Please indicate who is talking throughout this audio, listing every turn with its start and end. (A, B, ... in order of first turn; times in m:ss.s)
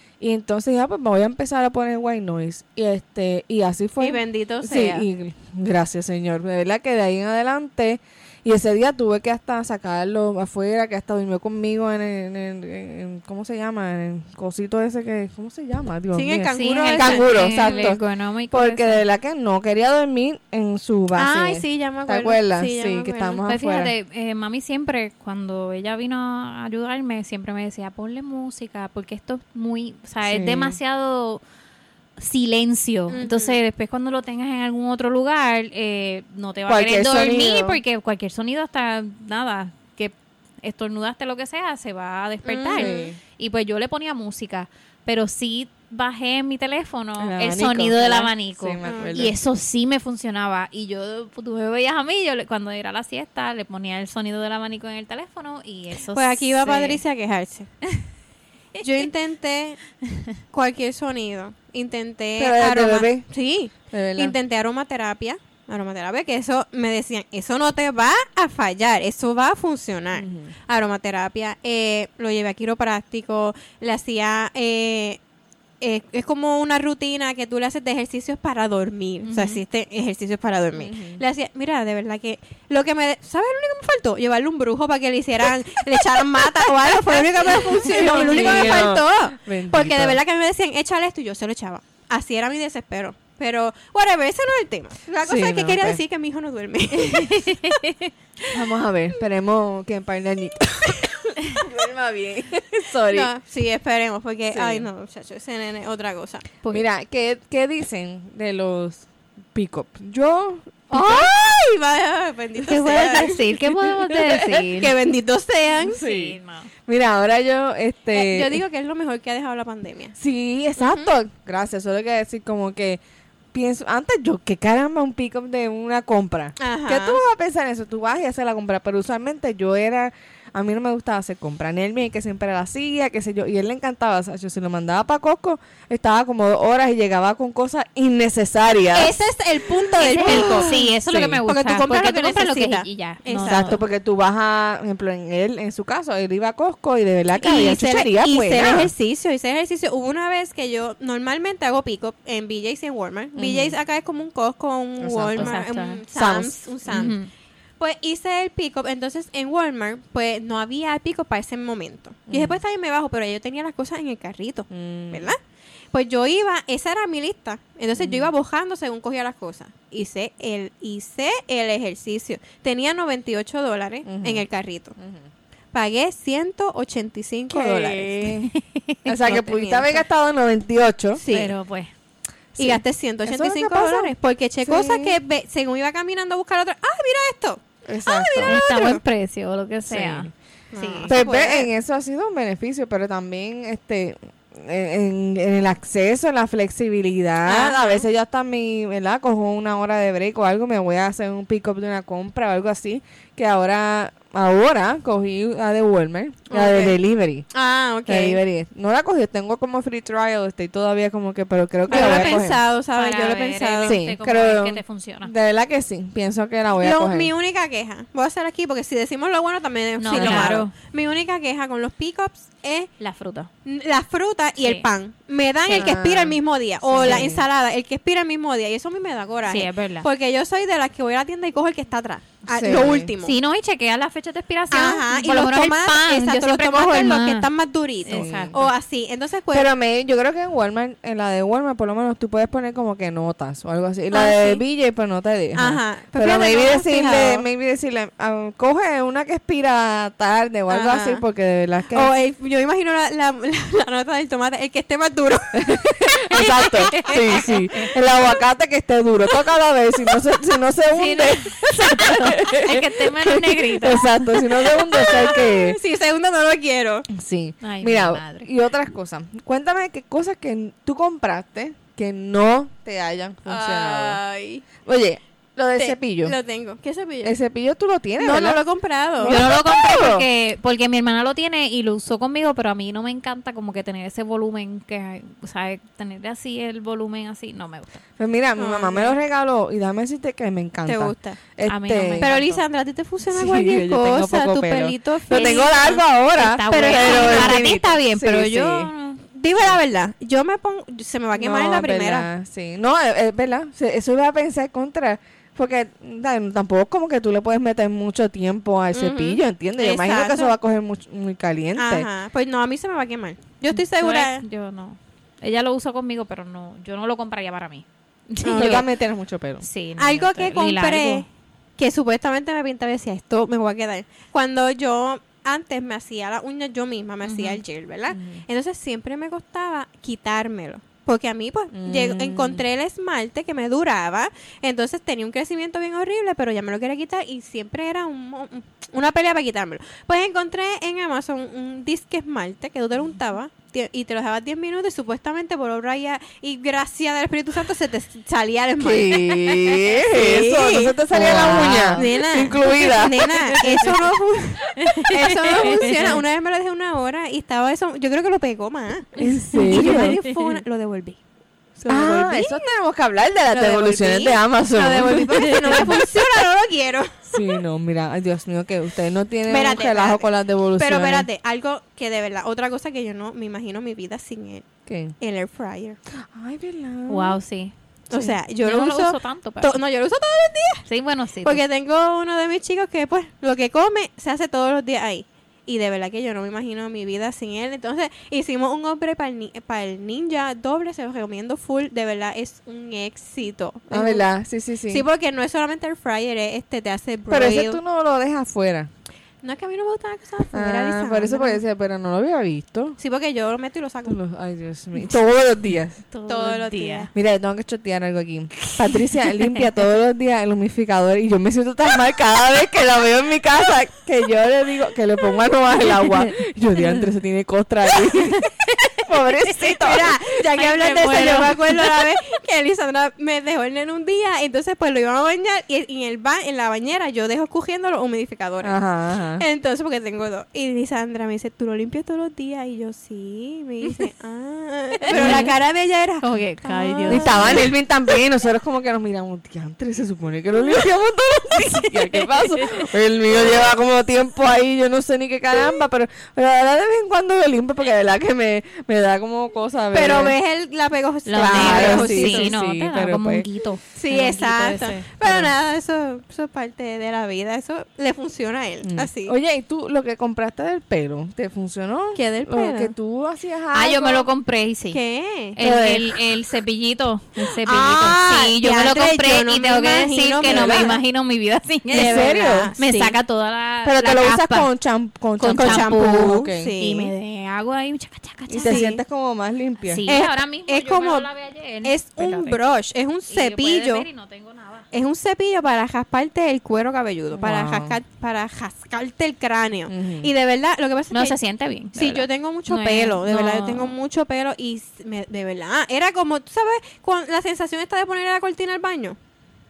0:00.2-0:23.9 A
0:04.0-0:05.1 B
0:16.1-0:17.9 B
0:16.5-0:19.0 C
0:21.1-0:23.4 B
0:23.4-0:31.4 C
0:30.2-0:30.8 A
0:32.2-0:57.0 C
0:33.1-0:33.6 B
0:36.7-0:37.8 A
0:42.4-0:43.1 B
0:42.7-0:43.2 A
0:47.2-0:49.4 A
0:48.8-0:49.2 B
0:56.1-0:57.7 B
0:58.8-0:59.8 B
1:00.5-1:15.2 B
1:02.4-1:03.2 A
1:03.9-1:04.3 A
1:10.1-1:10.5 A
1:15.8-1:37.7 B
1:19.2-1:19.6 C
1:20.8-1:21.2 A
1:27.1-1:30.2 A
1:27.9-1:28.9 C
1:35.2-1:36.0 A
1:37.0-1:38.1 C
1:38.5-1:43.3 A
1:43.1-1:46.5 B
1:44.5-1:44.9 A
1:46.7-1:51.3 A
1:50.9-1:53.4 B
1:52.6-1:55.0 C
1:53.6-1:54.7 A
1:54.7-1:56.0 B
1:55.8-1:58.6 A
1:55.8-1:56.7 C
1:58.1-2:00.1 B
2:00.2-2:03.0 A
2:00.8-2:01.1 B
2:03.5-2:19.1 A
2:06.6-2:07.2 B
2:18.9-2:20.9 B
2:20.0-2:21.4 A
2:20.0-2:23.8 C
2:21.4-2:23.8 B
2:23.4-2:28.9 A
2:27.3-2:37.2 B
2:33.4-2:33.7 A
2:35.0-2:35.6 A
2:35.4-2:36.0 C
2:36.1-2:37.1 A
2:36.9-2:37.3 C
2:37.8-2:45.4 B
2:42.3-2:42.6 A
2:44.7-2:45.3 A
2:45.9-2:55.0 B
2:48.0-2:48.3 A
2:54.0-2:54.4 A
2:55.0-2:55.2 A
2:55.7-2:58.3 B
2:57.5-2:58.5 A
2:58.4-2:59.2 C
2:59.0-3:01.2 A
2:59.2-3:00.0 B
3:01.1-3:01.5 B
3:01.3-3:01.9 C
3:02.6-3:04.1 A
3:02.6-3:09.0 B
3:04.6-3:05.2 A
3:07.8-3:08.6 A
3:08.4-3:11.2 C
3:09.9-3:10.3 A
3:10.7-3:11.7 B
3:11.0-3:27.5 A
3:17.4-3:18.0 B
3:26.5-3:27.0 B
3:27.5-3:28.4 B
3:28.1-3:32.6 A
3:31.9-3:34.0 B
3:31.9-3:35.3 C
3:33.8-3:37.3 A
3:36.8-3:42.9 B
3:40.0-3:40.7 C
3:40.1-3:40.6 A
3:43.0-3:43.5 C
3:43.6-3:53.4 B
3:44.6-3:44.8 C
3:45.7-3:47.4 A
3:47.0-3:47.3 C
3:49.5-3:50.1 C
3:52.5-3:53.1 A
3:53.2-3:57.5 C
3:54.7-3:59.7 B
3:58.0-3:58.6 C
3:58.1-3:58.7 A
3:59.5-4:12.1 A
4:04.1-4:04.6 B
4:05.5-4:07.5 B
4:10.7-4:11.2 B
4:11.9-4:17.9 B
4:15.5-4:25.8 A
4:16.9-4:17.8 C
4:21.0-4:24.2 C
4:21.0-4:21.3 B
4:24.6-4:27.1 B
4:27.1-4:34.2 A
4:27.6-4:28.5 C
4:33.4-4:34.6 B
4:34.8-4:36.3 A
4:35.8-4:37.4 B
4:37.2-4:38.6 A
4:38.2-4:39.4 B
4:39.2-4:40.2 A
4:39.2-4:48.0 C
4:48.2-4:52.3 A
4:48.6-4:49.2 B
4:50.8-4:51.4 B
4:51.6-4:52.6 C
4:52.2-4:56.0 B
4:53.3-4:58.9 A
4:55.3-4:55.8 C
4:56.3-4:59.2 C
4:56.7-4:57.7 B
4:59.3-5:02.3 B
5:01.3-5:12.1 A
5:08.9-5:10.5 B
5:11.8-5:14.4 B
5:13.8-5:18.8 C
5:18.4-5:18.8 B
5:18.5-5:19.6 A
5:19.6-5:21.2 C
5:20.0-5:21.2 B
5:21.8-6:01.2 B
5:27.2-5:27.6 C
5:28.1-5:28.4 A
5:31.7-5:32.6 A
5:48.8-5:54.0 A
5:51.1-5:52.2 C
5:54.8-5:56.1 C
5:59.2-6:00.2 A
5:59.2-6:00.6 C
6:01.8-6:02.7 B
6:01.9-6:06.2 A
6:03.5-6:07.6 B
6:07.3-6:11.3 A
6:09.5-6:14.6 B
6:14.9-6:15.1 A
6:15.2-6:16.0 B
6:16.2-6:17.4 A
6:17.1-6:19.8 C
6:18.1-6:20.8 B
6:20.9-6:21.6 C
6:21.4-6:34.2 B
6:33.9-6:35.0 A
6:34.9-6:37.8 B
6:37.3-6:38.9 A
6:39.4-6:41.6 B
6:40.5-6:43.0 A
6:43.0-6:44.2 B
6:44.0-6:46.0 A
6:46.1-6:47.1 C
6:46.3-6:47.1 B
6:47.1-7:01.6 A
6:59.7-7:08.8 B
7:00.7-7:01.5 C
7:08.6-7:09.4 A
7:09.4-7:17.7 B
7:15.1-7:15.5 C
7:15.1-7:15.5 A
7:16.2-7:17.7 C
7:17.1-7:30.4 A
7:21.9-7:22.7 C
7:29.9-7:32.5 B
7:31.3-7:35.3 C
7:31.3-7:33.4 A
7:33.9-7:39.3 B
7:38.8-7:44.3 A
7:42.1-7:42.9 B
7:43.7-7:45.0 C
7:44.9-7:45.6 B
7:45.6-7:54.7 C
7:45.6-7:46.2 A
7:47.6-7:51.0 B
7:50.4-7:51.0 A
7:51.9-7:53.2 B
7:51.9-7:52.7 A
7:53.8-7:56.8 A
7:55.4-7:58.8 C
7:55.5-7:57.1 B
7:58.5-8:00.0 A
7:58.6-7:59.0 B
7:59.8-8:02.6 C
8:00.0-8:01.3 B
8:01.8-8:04.1 B
8:03.3-8:04.9 C
8:04.9-8:11.4 B
8:07.3-8:08.0 A
8:09.9-8:10.3 A
8:11.1-8:13.9 C
8:11.9-8:19.2 B